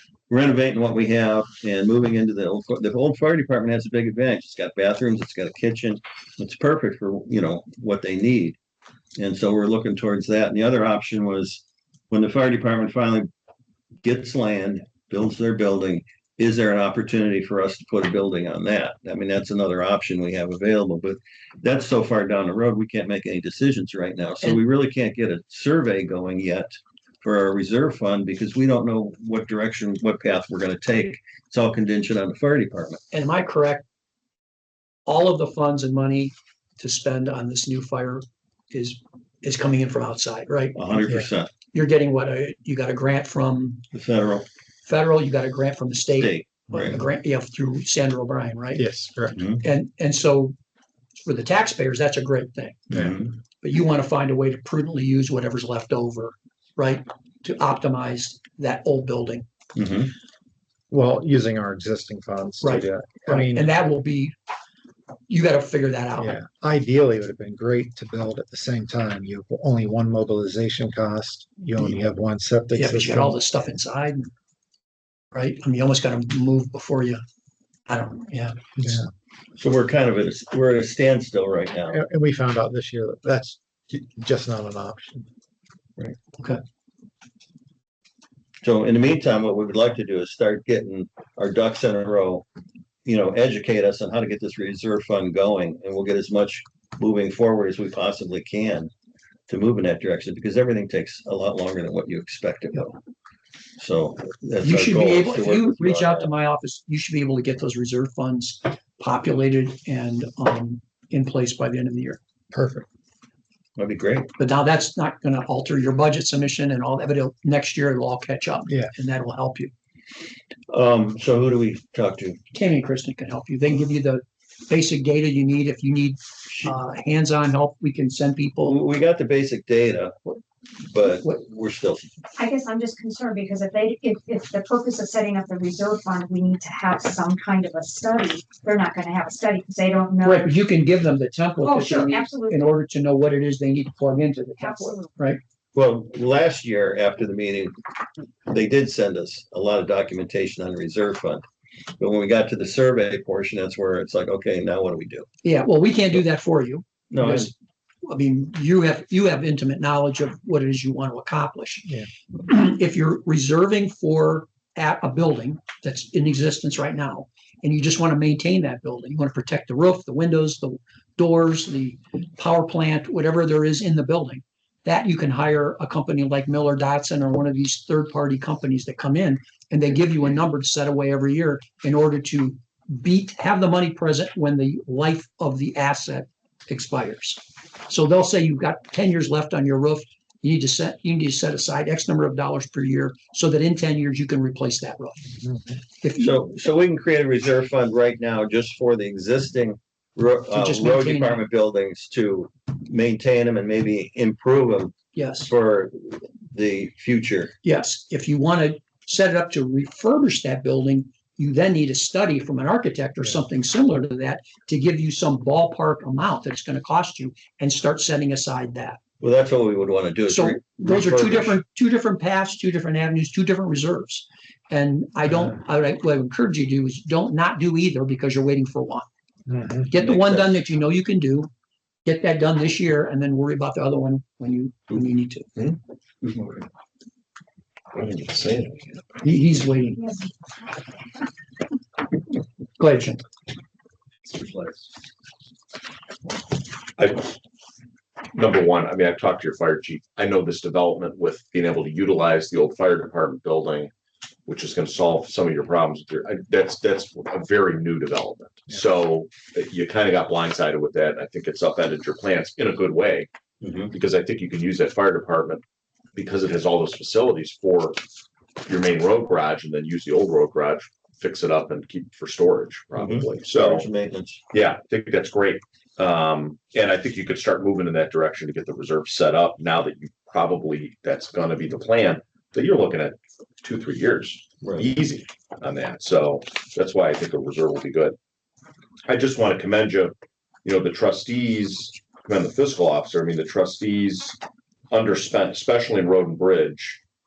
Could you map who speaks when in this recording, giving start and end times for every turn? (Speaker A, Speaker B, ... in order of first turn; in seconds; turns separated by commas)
Speaker A: 0.3-8.6, Speaker A: 9.2-13.3, Speaker A: 14.0-33.0, Speaker B: 33.1-33.8, Speaker B: 35.0-40.8, Speaker A: 40.7-41.5, Speaker B: 41.7-43.8, Speaker A: 43.9-44.5, Speaker B: 44.8-48.8, Speaker A: 46.1-47.0, Speaker C: 48.8-49.4, Speaker A: 49.3-49.6, Speaker B: 49.6-50.5, Speaker B: 51.2-52.9, Speaker A: 52.9-53.3, Speaker B: 53.6-59.5, Speaker A: 59.7-60.1, Speaker C: 60.9-63.7, Speaker B: 62.6-64.3, Speaker B: 65.3-66.4, Speaker C: 66.2-73.4, Speaker B: 72.7-74.3, Speaker B: 75.3-77.2, Speaker B: 77.9-78.7, Speaker C: 78.8-79.1, Speaker A: 79.5-82.0, Speaker C: 81.9-85.3, Speaker A: 88.6-92.5, Speaker A: 93.0-98.9, Speaker A: 99.5-103.0, Speaker A: 103.8-106.3, Speaker B: 104.6-112.2, Speaker C: 112.5-112.8, Speaker A: 113.8-114.3, Speaker B: 114.4-119.7, Speaker A: 120.7-122.4, Speaker B: 122.5-128.8, Speaker A: 128.7-130.3, Speaker A: 130.8-132.1, Speaker B: 131.1-131.4, Speaker D: 132.4-140.5, Speaker B: 140.2-145.4, Speaker D: 141.6-142.7, Speaker D: 144.6-145.2, Speaker A: 145.7-147.8, Speaker A: 148.5-151.4, Speaker A: 152.0-155.3, Speaker B: 155.4-195.3, Speaker A: 157.1-157.5, Speaker C: 195.4-195.8, Speaker B: 196.0-196.4, Speaker A: 196.2-207.5, Speaker B: 200.5-201.4, Speaker B: 205.1-205.5, Speaker B: 207.6-219.0, Speaker A: 219.2-221.6, Speaker B: 220.3-229.1, Speaker C: 229.5-229.9, Speaker B: 229.9-231.5, Speaker A: 230.0-230.6, Speaker B: 232.0-235.5, Speaker E: 235.6-236.6, Speaker E: 237.9-239.0, Speaker B: 239.2-240.0, Speaker D: 240.0-240.3, Speaker B: 242.8-243.2, Speaker E: 244.3-244.8, Speaker E: 247.0-247.3, Speaker E: 248.3-253.9, Speaker E: 254.4-263.3, Speaker A: 263.6-263.9, Speaker E: 263.9-265.6, Speaker E: 266.1-268.0, Speaker E: 268.6-273.9, Speaker A: 272.9-274.4, Speaker E: 274.5-288.2, Speaker E: 289.1-294.4, Speaker E: 294.9-297.0